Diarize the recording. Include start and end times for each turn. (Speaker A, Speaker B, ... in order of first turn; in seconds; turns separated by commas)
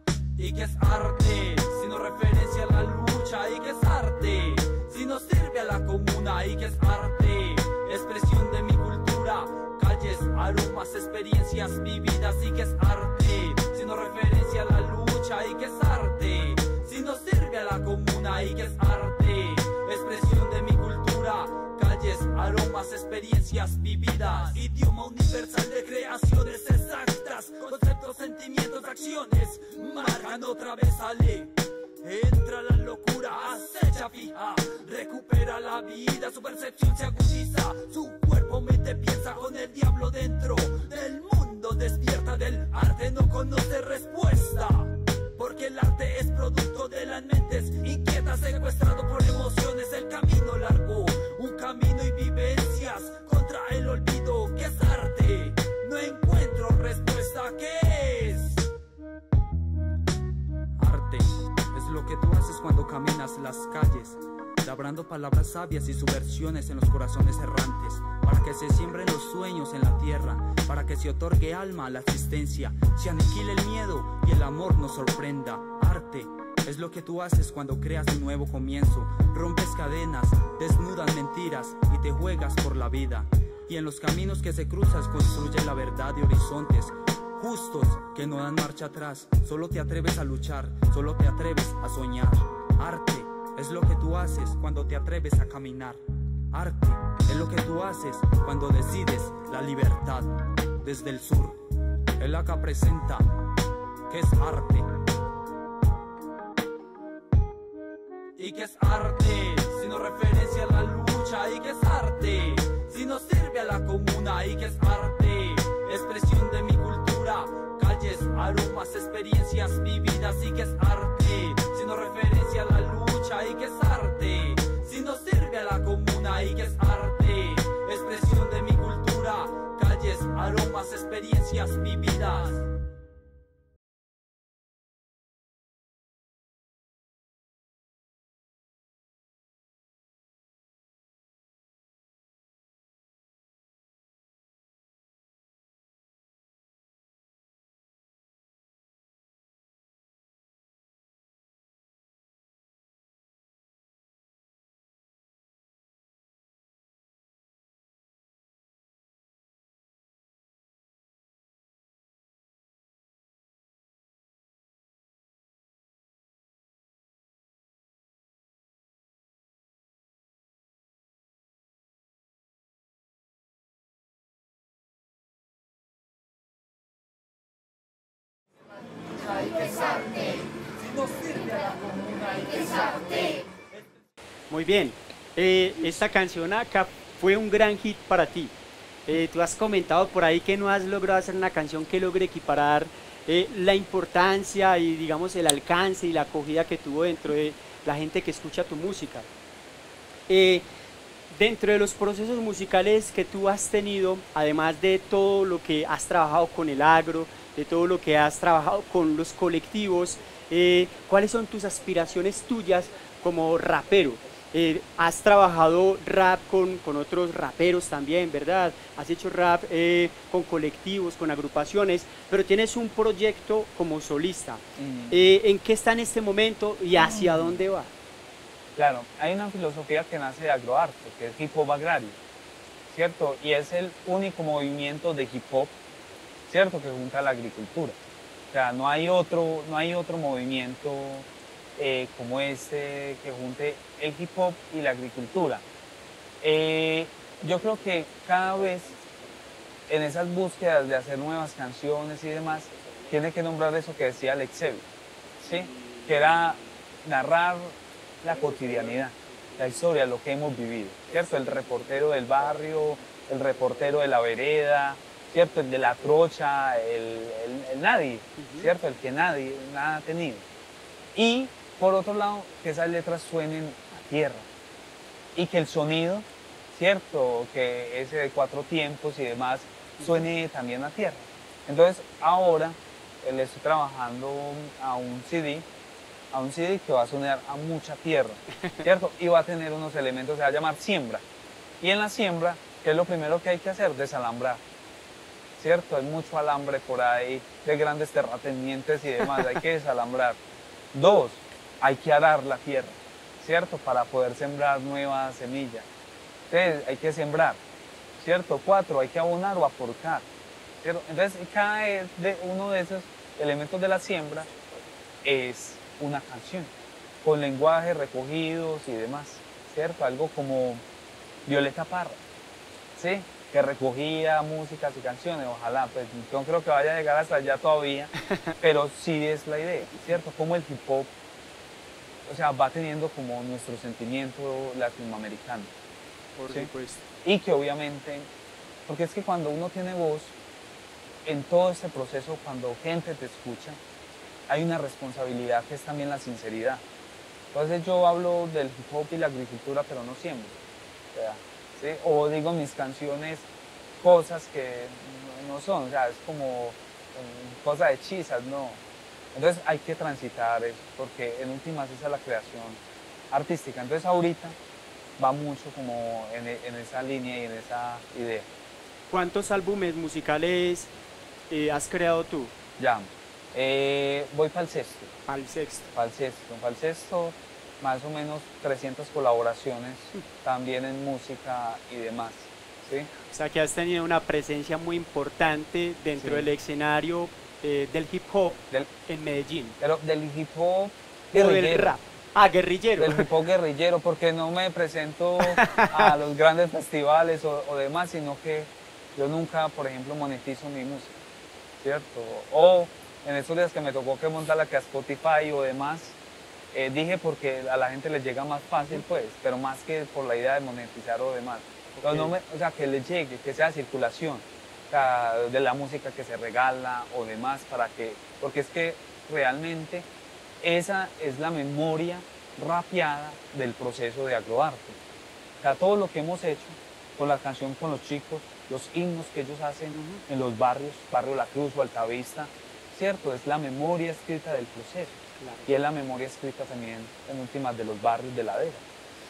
Speaker A: 0.3-58.7, Speaker A: 60.8-96.0, Speaker A: 96.5-105.1, Speaker A: 108.3-132.8, Speaker A: 182.4-183.2, Speaker B: 184.5-188.5, Speaker B: 189.1-199.3, Speaker B: 200.3-200.7, Speaker B: 201.3-227.9, Speaker C: 224.8-225.2, Speaker C: 227.0-227.6, Speaker C: 228.8-232.2, Speaker C: 232.9-235.8, Speaker C: 236.5-238.0, Speaker C: 238.5-245.6, Speaker C: 246.4-249.0, Speaker C: 249.9-254.9, Speaker C: 255.4-270.4, Speaker B: 268.4-268.7, Speaker C: 271.1-274.5, Speaker C: 275.3-285.7, Speaker B: 280.0-280.2, Speaker C: 286.3-291.2, Speaker C: 291.8-294.6, Speaker C: 295.6-300.4, Speaker C: 300.9-305.9, Speaker C: 306.5-307.6, Speaker C: 308.2-310.3, Speaker C: 310.8-314.5, Speaker C: 315.2-316.7, Speaker C: 317.2-320.8, Speaker C: 321.4-322.2, Speaker C: 322.9-331.1, Speaker C: 332.2-335.7, Speaker B: 336.4-337.0, Speaker C: 337.2-338.3, Speaker C: 338.9-340.4, Speaker C: 341.2-343.8, Speaker C: 344.5-346.8, Speaker C: 347.5-350.6, Speaker C: 351.1-358.8, Speaker C: 359.3-364.6, Speaker C: 365.2-368.5, Speaker B: 369.1-370.9, Speaker B: 371.5-372.5, Speaker C: 372.8-375.1, Speaker B: 375.3-375.9, Speaker C: 375.9-383.1, Speaker B: 383.2-389.8, Speaker C: 386.2-386.5, Speaker C: 389.8-392.0, Speaker B: 391.3-393.3, Speaker C: 393.0-401.1, Speaker B: 395.4-396.1, Speaker C: 401.8-406.2, Speaker C: 406.7-420.1, Speaker B: 411.9-412.4, Speaker C: 420.6-425.0, Speaker C: 425.6-438.8, Speaker B: 429.9-430.2, Speaker B: 435.4-435.7